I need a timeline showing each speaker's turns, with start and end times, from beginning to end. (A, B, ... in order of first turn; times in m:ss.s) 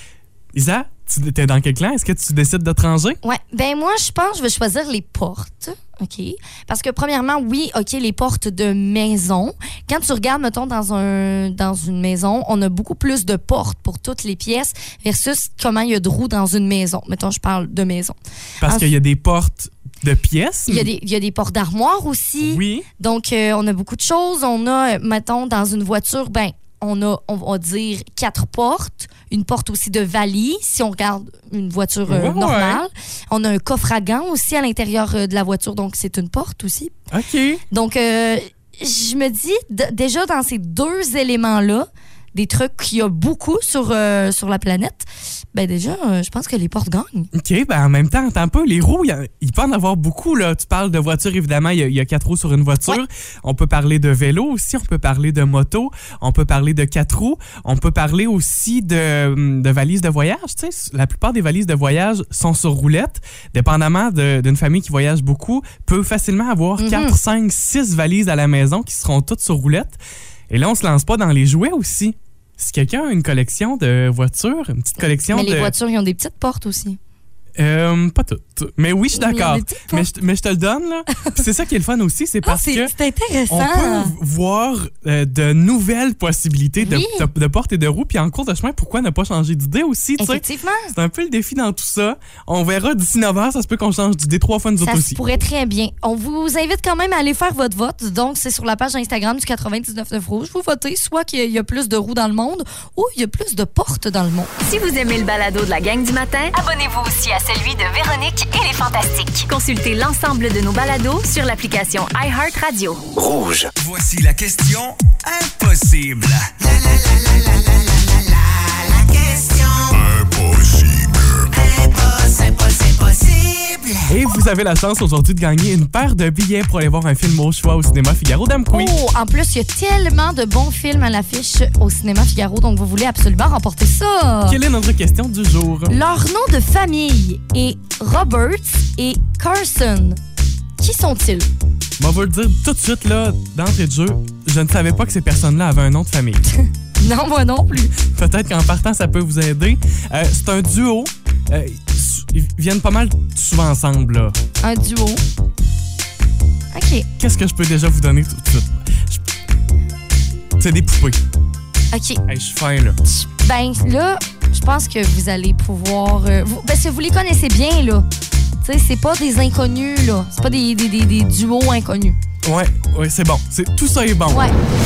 0:00.6-0:03.2 A
0:03.2-0:18.9 B
0:18.6-0:20.9 A
0:20.7-0:37.0 B
0:22.4-0:22.9 A
0:32.1-0:32.8 A
0:37.1-0:37.6 A
0:37.7-0:47.3 B
0:47.3-1:10.0 A
1:06.8-1:07.2 B
1:10.5-1:15.8 A
1:15.3-1:17.0 B
1:17.6-1:22.9 A
1:19.1-1:20.1 B
1:22.4-1:24.1 B
1:23.5-1:35.2 A
1:26.8-1:27.3 B
1:30.2-1:31.0 B
1:34.8-1:44.5 B
1:44.6-2:03.9 C
2:04.0-2:09.0 A
2:08.7-2:14.6 B
2:14.5-2:16.0 A
2:15.9-2:20.2 B
2:20.8-2:21.5 B
2:22.0-2:26.4 A
2:27.0-2:27.9 B
2:28.0-2:34.4 A
2:34.6-2:35.2 B
2:36.7-2:37.1 B
2:37.2-2:39.2 A
2:40.6-2:41.2 A
2:41.9-2:42.2 B
2:42.3-2:43.0 A
2:43.2-2:48.1 B
2:48.6-2:52.2 B
2:52.4-2:54.5 A
2:54.3-2:54.6 B